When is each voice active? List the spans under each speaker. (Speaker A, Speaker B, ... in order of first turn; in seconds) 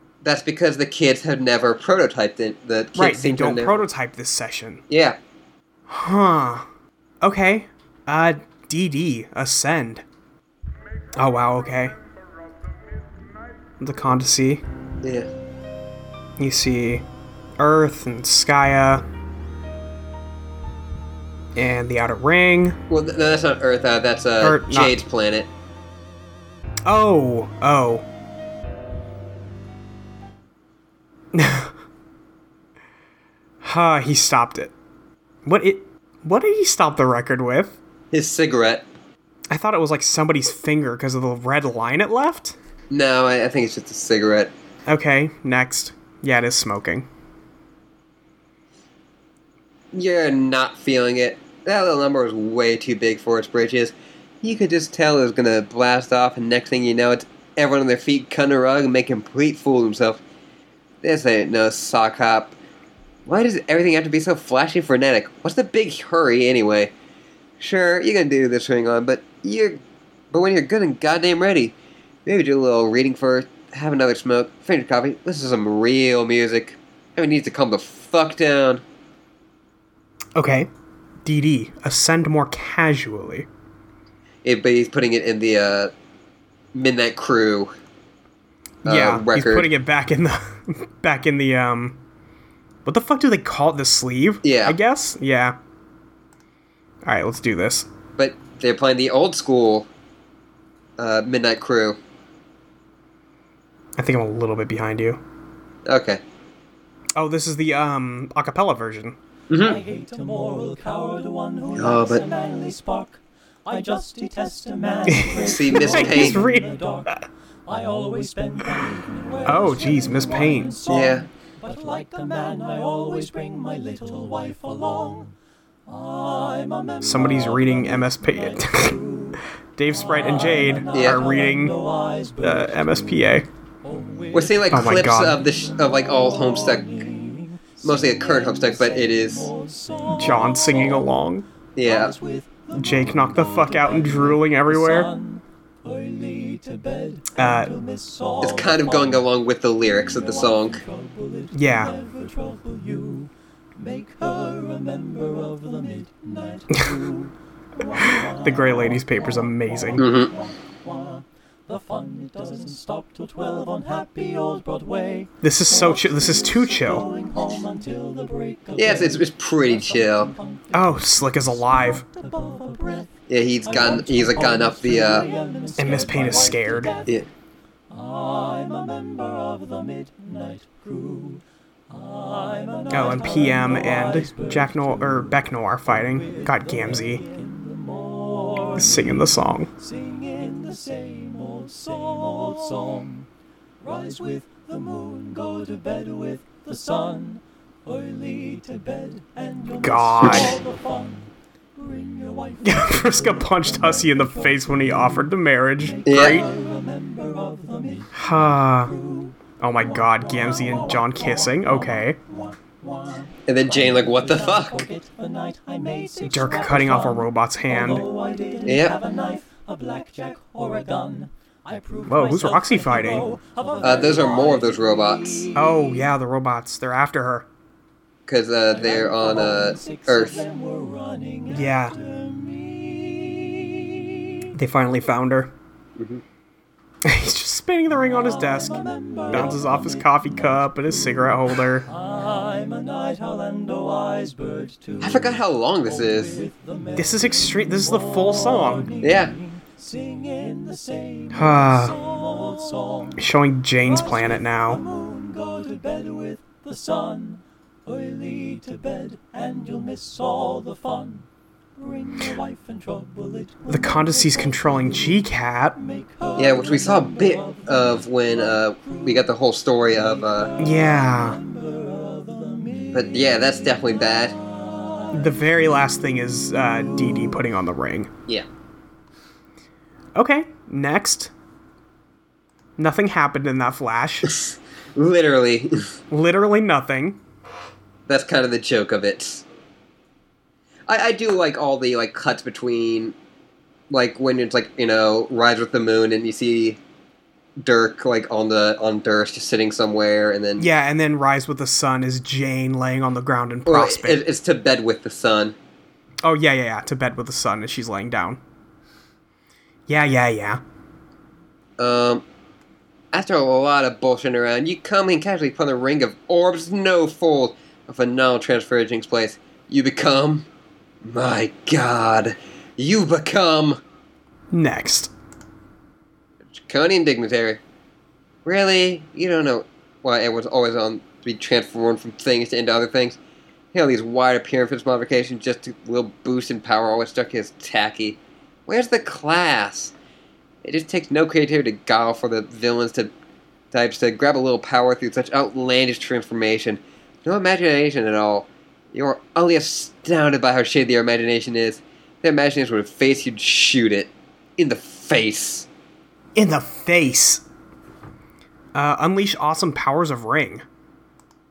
Speaker A: 0.2-3.8, 4.9-5.2, 15.0-15.3, 22.9-25.5, 38.1-38.8, 42.9-44.5, 49.9-60.2, 61.0-62.5, 63.3-66.9, 67.6-69.8, 70.3-71.7, 72.3-78.8, 84.4-85.9, 86.7-87.7, 88.8-89.7, 94.4-94.8, 98.2-99.9, 101.0-102.0, 105.9-106.2, 109.5-109.8, 111.8-112.2, 115.4-116.4, 120.9-121.3, 130.9-131.2, 134.3-137.1, 137.8-139.5, 141.8-142.1, 148.4-150.8, 160.0-160.3, 168.8-170.3, 173.3-175.3, 206.1-206.4, 213.5-214.8, 218.7-219.0, 223.8-225.5, 228.3-230.4, 245.0-246.4, 249.0-249.3, 266.4-270.5, 272.9-274.4, 284.3-285.9, 288.1-289.4, 290.9-293.1, 293.9-296.8, 297.6-300.7, 303.7-305.6, 311.8-312.2, 313.1-320.5, 321.1-323.8, 326.7-327.6, 328.4-333.2, 333.7-339.9, 340.6-343.1, 343.7-355.7
Speaker B: 3.0-4.8, 5.9-6.7, 7.2-10.0, 11.2-11.9, 13.8-14.6, 16.4-17.0, 17.6-19.1, 21.6-22.8, 24.4-25.0, 26.9-28.0, 31.3-31.7, 33.6-34.7, 35.5-37.8, 39.5-42.6, 44.9-47.1, 80.3-80.7, 81.2-83.5, 88.8-92.0, 92.8-95.6, 97.0-97.9, 104.0-105.2, 107.2-109.2, 115.1-117.1, 119.5-120.8, 127.0-129.0, 129.8-131.8, 132.4-133.5, 134.7-135.4, 140.2-141.5, 142.7-145.1, 147.4-147.7, 151.5-151.9, 158.1-160.0, 165.4-167.1, 170.7-172.0, 175.8-176.9, 182.9-187.2, 188.8-189.7, 199.8-200.6, 202.6-206.5, 208.1-208.9, 209.6-212.2, 216.3-218.1, 222.1-223.3, 225.6-227.5, 231.5-232.0, 234.5-235.5, 237.1-241.9, 247.0-248.9, 251.3-252.0, 253.2-254.8, 263.7-265.8, 270.6-271.4, 275.1-278.1, 280.2-281.3, 282.8-284.3, 286.1-287.2, 300.6-304.2, 306.2-308.4, 309.9-310.6, 324.5-325.1, 356.4-357.4, 358.7-360.6
Speaker C: 109.6-125.3, 125.9-133.3, 133.8-141.1, 141.8-149.2, 150.0-173.1, 173.7-177.2, 177.9-185.4, 185.9-189.2, 189.8-193.3, 193.8-205.1, 205.8-226.1, 228.7-234.3, 238.0-240.6, 241.9-253.2, 253.8-261.2, 261.8-265.2, 265.8-268.1, 270.5-273.4, 274.6-275.4